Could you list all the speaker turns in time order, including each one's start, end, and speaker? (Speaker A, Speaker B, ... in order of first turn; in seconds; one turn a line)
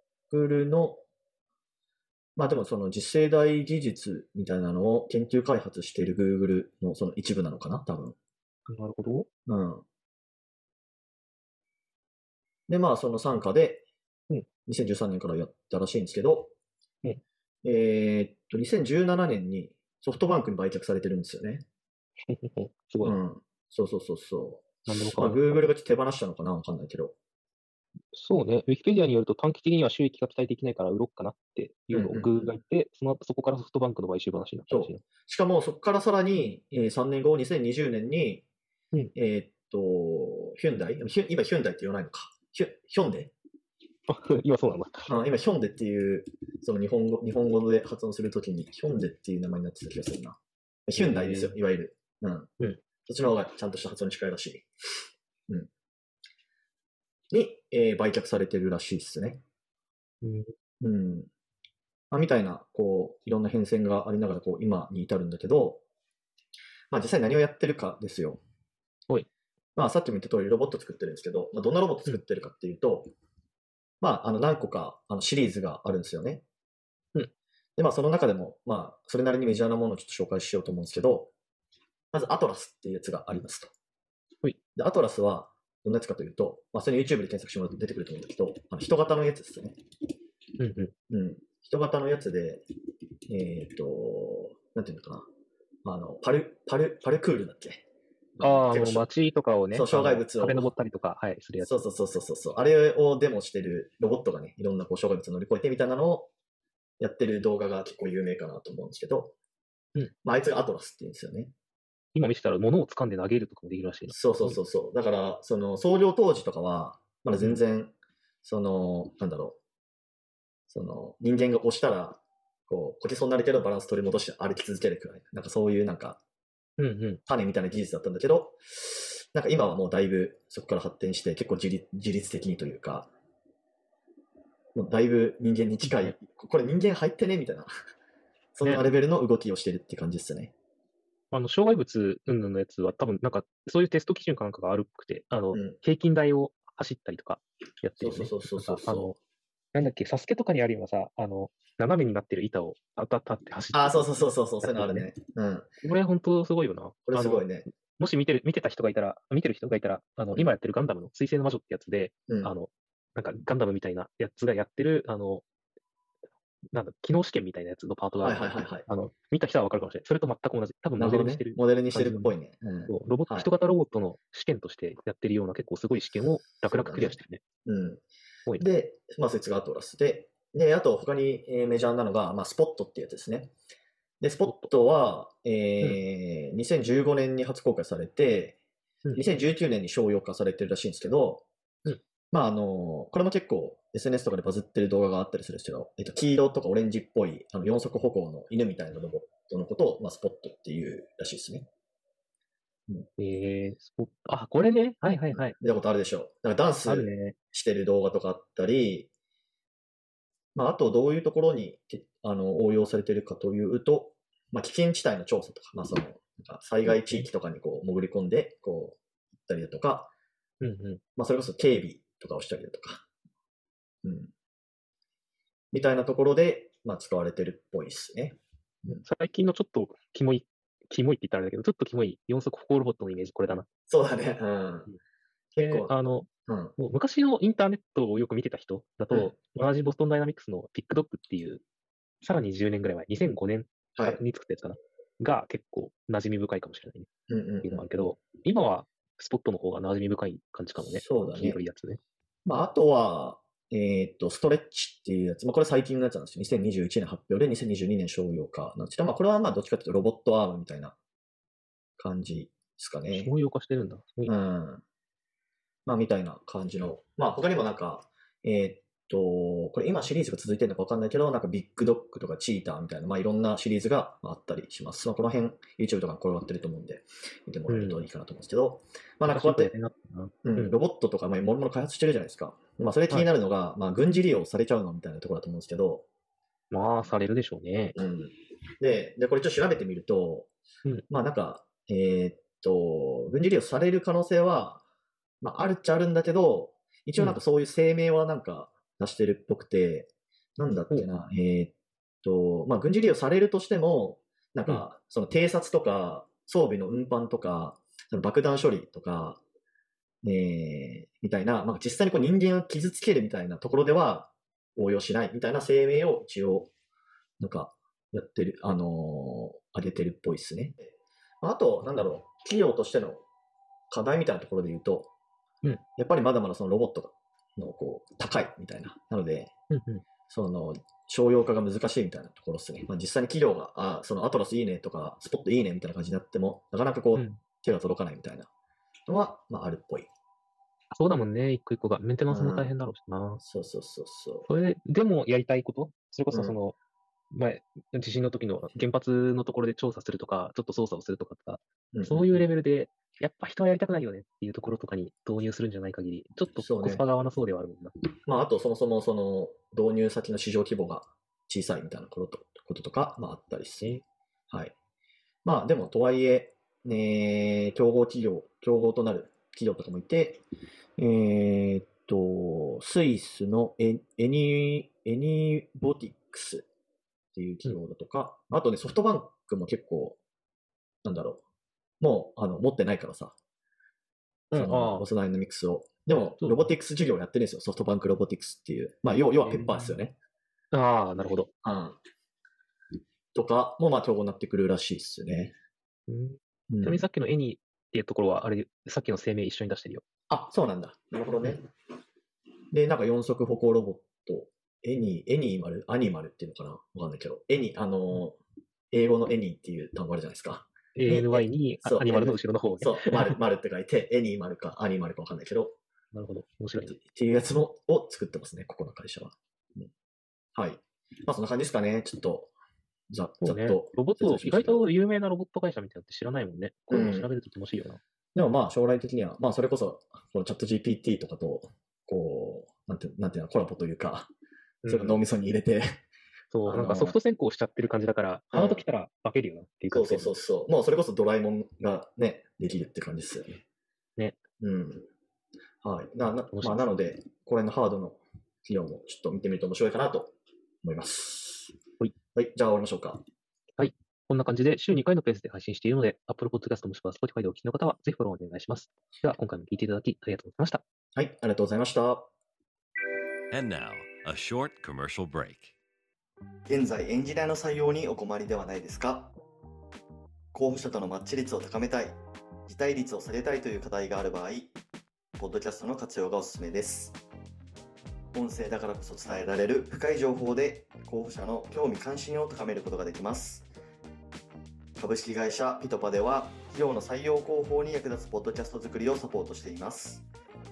Speaker A: 0.3-1.0
Speaker A: 2.4-8.2
Speaker B: 8.7-9.3
Speaker A: 9.5-9.8
Speaker A: 12.7-13.9
Speaker A: 14.7-16.5
Speaker A: 17.6-21.6
Speaker B: 22.3-23.1
Speaker A: 23.0-27.1
Speaker B: 24.9-25.6
Speaker B: 28.1-35.0
Speaker A: 31.9-32.5
Speaker A: 34.7-38.4
Speaker A: 39.1-43.3
Speaker B: 44.1-45.2
Speaker A: 45.1-52.5
Speaker B: 51.0-51.5
Speaker A: 53.1-54.7
Speaker A: 57.3-59.4
Speaker B: 60.2-60.5
Speaker A: 60.8-61.3
Speaker A: 62.1-65.8
Speaker A: 66.9-68.4
Speaker A: 69.8-73.1
Speaker A: 74.0-76.4
Speaker A: 77.8-81.3
Speaker A: 82.1-83.7
Speaker A: 84.8-89.7
Speaker B: 90.6-90.9
Speaker A: 91.1-92.6
Speaker A: 93.3-95.3
Speaker A: 95.8-97.8
Speaker A: 98.4-99.1
Speaker B: 98.4-101.8
Speaker A: 99.7-100.7
Speaker A: 101.6-106.3
Speaker A: 107.0-109.3
Speaker A: 110.2-111.5
Speaker B: 112.1-114.6
Speaker A: 114.1-119.6
Speaker A: 120.7-126.2
Speaker B: 126.8-127.2
Speaker A: 127.3-133.1
Speaker A: 134.7-137.7
Speaker B: 135.8-136.1
Speaker A: 138.5-140.5
Speaker B: 138.6-138.9
Speaker B: 141.3-149.2
Speaker A: 148.0-149.1
Speaker B: 149.7-155.1
Speaker A: 153.7-155.7
Speaker B: 155.8-165.4
Speaker A: 157.1-157.7
Speaker A: 162.3-162.5
Speaker B: 166.7-172.3
Speaker A: 168.2-168.8
Speaker A: 171.0-173.5
Speaker B: 172.9-177.4
Speaker A: 176.6-178.0
Speaker A: 178.6-183.5
Speaker A: 184.2-188.6
Speaker B: 189.0-189.3
Speaker A: 189.1-191.5
Speaker A: 192.3-201.7
Speaker B: 203.2-205.6
Speaker A: 205.3-209.1
Speaker B: 206.8-207.3
Speaker A: 210.5-220.1
Speaker B: 216.8-217.3
Speaker B: 220.6-221.0
Speaker A: 221.2-223.1
Speaker A: 224.0-224.3
Speaker A: 225.7-229.0
Speaker B: 229.0-233.7
Speaker A: 233.9-234.9
Speaker A: 235.5-235.9
Speaker B: 235.6-241.6
Speaker A: 236.5-236.7
Speaker B: 242.2-247.1
Speaker A: 247.3-247.8
Speaker B: 247.6-252.0
Speaker A: 250.8-251.6
Speaker A: 252.4-260.9
Speaker A: 262.0-263.3
Speaker B: 263.1-264.3
Speaker A: 264.2-264.8
Speaker A: 265.9-279.7
Speaker B: 277.7-278.0
Speaker B: 279.2-280.8
Speaker A: 280.4-286.0
Speaker B: 286.7-288.0
Speaker A: 287.9-290.5
Speaker A: 291.1-294.8
Speaker A: 295.4-309.4
Speaker A: 310.2-316.7
Speaker A: 317.4-320.9
Speaker A: 321.4-323.2
Speaker A: 323.9-325.1
Speaker A: 326.0-329.5
Speaker B: 329.7-330.0
Speaker A: 330.3-338.5
Speaker B: 337.1-337.4
Speaker A: 339.1-340.1
Speaker B: 340.9-343.4
Speaker A: 342.3-342.7
Speaker A: 343.4-344.5
Speaker B: 344.5-346.8
Speaker A: 346.3-346.6
Speaker B: 347.3-357.9
Speaker A: 351.9-352.5
Speaker A: 356.6-357.0
Speaker A: 358.2-364.0
Speaker A: 365.4-370.4
Speaker A: 371.0-376.6
Speaker A: 377.3-380.2
Speaker A: 381.0-381.4
Speaker A: 382.0-383.3
Speaker B: 384.5-385.1
Speaker A: 384.5-390.1
Speaker B: 386.4-386.7
Speaker B: 389.4-390.0
Speaker B: 390.7-391.5
Speaker A: 391.6-392.0
Speaker A: 393.3-395.5
Speaker B: 396.1-400.0
Speaker A: 396.7-397.0
Speaker A: 400.3-401.7
Speaker A: 402.7-408.4
Speaker A: 408.9-415.8
Speaker B: 410.9-413.4
Speaker B: 416.1-416.9
Speaker A: 416.8-419.9
Speaker A: 420.5-422.5
Speaker A: 423.1-424.8
Speaker B: 423.4-428.0
Speaker A: 426.9-427.3
Speaker A: 428.3-434.3
Speaker B: 434.8-435.2
Speaker A: 434.9-436.0
Speaker B: 436.5-440.3
Speaker A: 436.6-437.2
Speaker A: 438.5-438.8
Speaker A: 439.9-443.6
Speaker A: 444.6-445.1
Speaker A: 445.8-451.8
Speaker B: 446.3-446.9
Speaker A: 452.3-453.2
Speaker B: 453.8-460.8
Speaker A: 461.1-462.3
Speaker C: 463.5-465.7
Speaker A: 466.7-469.3
Speaker A: 470.5-474.7
Speaker A: 475.4-477.2
Speaker A: 478.3-483.7
Speaker A: 485.0-490.2